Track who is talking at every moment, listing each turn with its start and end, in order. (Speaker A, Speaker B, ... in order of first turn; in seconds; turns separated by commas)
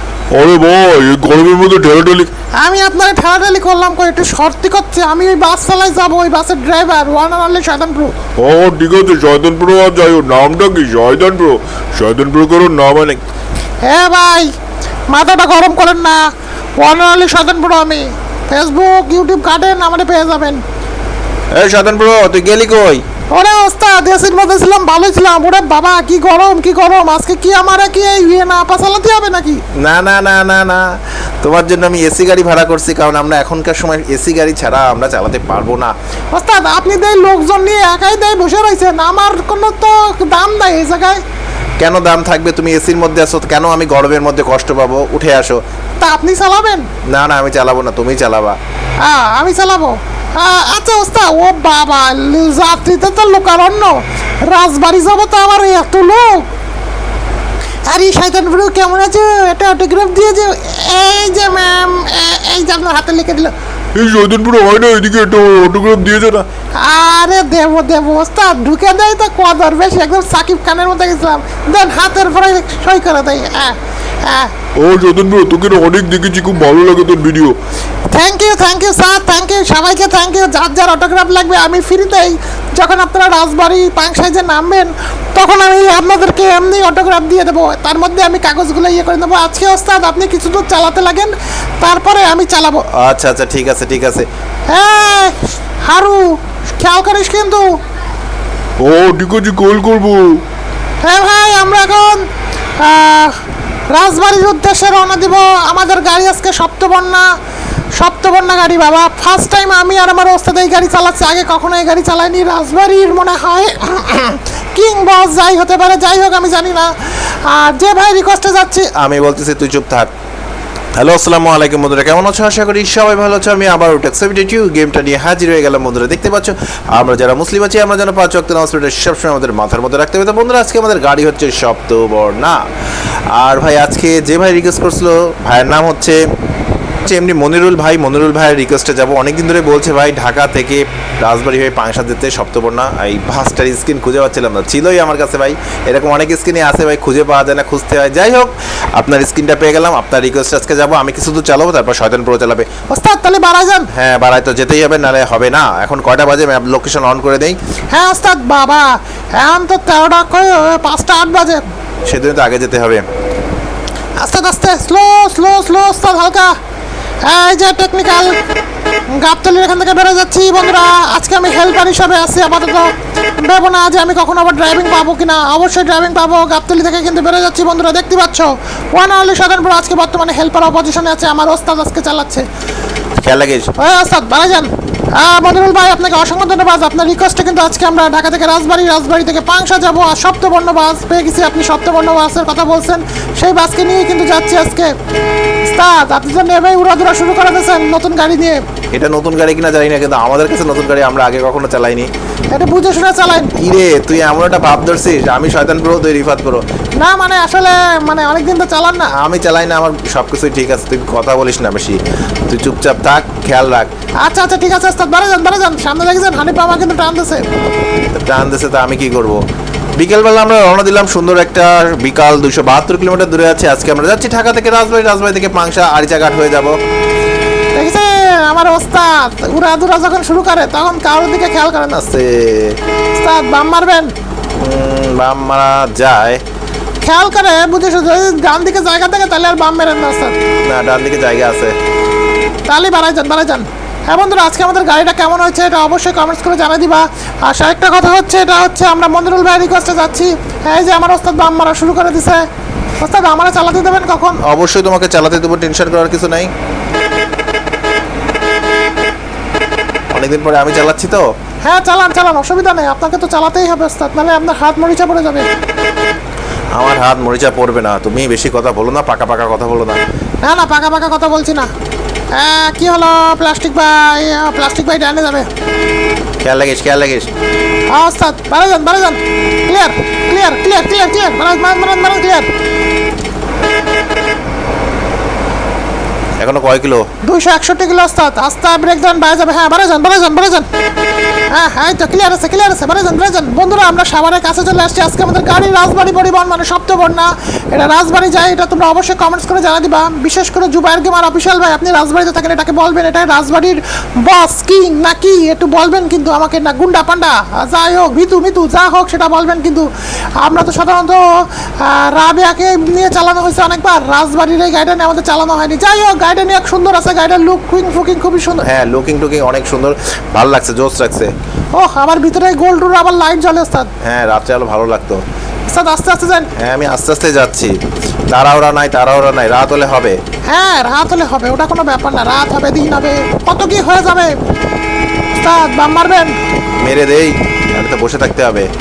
Speaker A: 0.3-2.3, Speaker B: 2.5-8.2, Speaker A: 8.4-13.2, Speaker B: 13.8-14.5, Speaker B: 15.1-20.6, Speaker C: 21.5-23.0, Speaker B: 23.3-29.6, Speaker C: 29.7-35.9, Speaker B: 36.3-41.2, Speaker C: 41.8-45.6, Speaker B: 46.0-46.9, Speaker C: 47.0-48.6, Speaker B: 49.0-56.5, Speaker B: 57.9-63.5, Speaker A: 64.0-66.4, Speaker B: 66.8-74.5, Speaker A: 74.8-77.5, Speaker B: 78.1-92.8, Speaker C: 92.9-94.3, Speaker B: 94.7-97.7, Speaker A: 98.8-100.4, Speaker B: 101.0-102.2, Speaker B: 102.8-107.3, Speaker B: 108.0-118.9, Speaker C: 118.9-120.1, Speaker C: 121.0-132.6, Speaker C: 133.3-136.2, Speaker C: 137.0-152.8, Speaker B: 152.9-153.9, Speaker C: 153.9-157.6, Speaker B: 157.9-161.6, Speaker C: 162.1-163.0, Speaker B: 164.2-166.5, Speaker B: 167.2-168.4, Speaker B: 169.1-182.4, Speaker C: 183.2-183.7, Speaker B: 183.8-194.9, Speaker B: 195.6-198.6, Speaker C: 198.9-202.1, Speaker B: 202.5-203.5, Speaker C: 203.6-206.6, Speaker B: 207.0-209.1, Speaker C: 209.1-213.9, Speaker B: 214.2-217.4, Speaker C: 218.1-219.4, Speaker C: 220.0-226.8, Speaker B: 227.8-232.1, Speaker C: 232.0-232.8, Speaker B: 233.1-234.1, Speaker C: 234.6-236.4, Speaker B: 237.0-240.3, Speaker C: 240.7-241.7, Speaker B: 242.7-252.4, Speaker B: 253.0-254.4, Speaker C: 254.4-256.5, Speaker C: 260.1-261.3, Speaker B: 261.6-265.5, Speaker C: 266.7-270.0, Speaker B: 270.4-271.7, Speaker B: 272.3-275.5, Speaker C: 276.4-277.3, Speaker B: 277.9-282.5, Speaker C: 286.4-287.1, Speaker B: 287.2-290.7, Speaker B: 291.5-309.9, Speaker B: 310.4-318.6, Speaker C: 318.6-321.3, Speaker B: 321.7-323.9, Speaker C: 324.0-325.2, Speaker B: 325.7-326.5, Speaker C: 326.5-327.8, Speaker C: 328.3-330.2, Speaker B: 330.5-334.4, Speaker B: 335.3-336.4, Speaker C: 336.8-338.7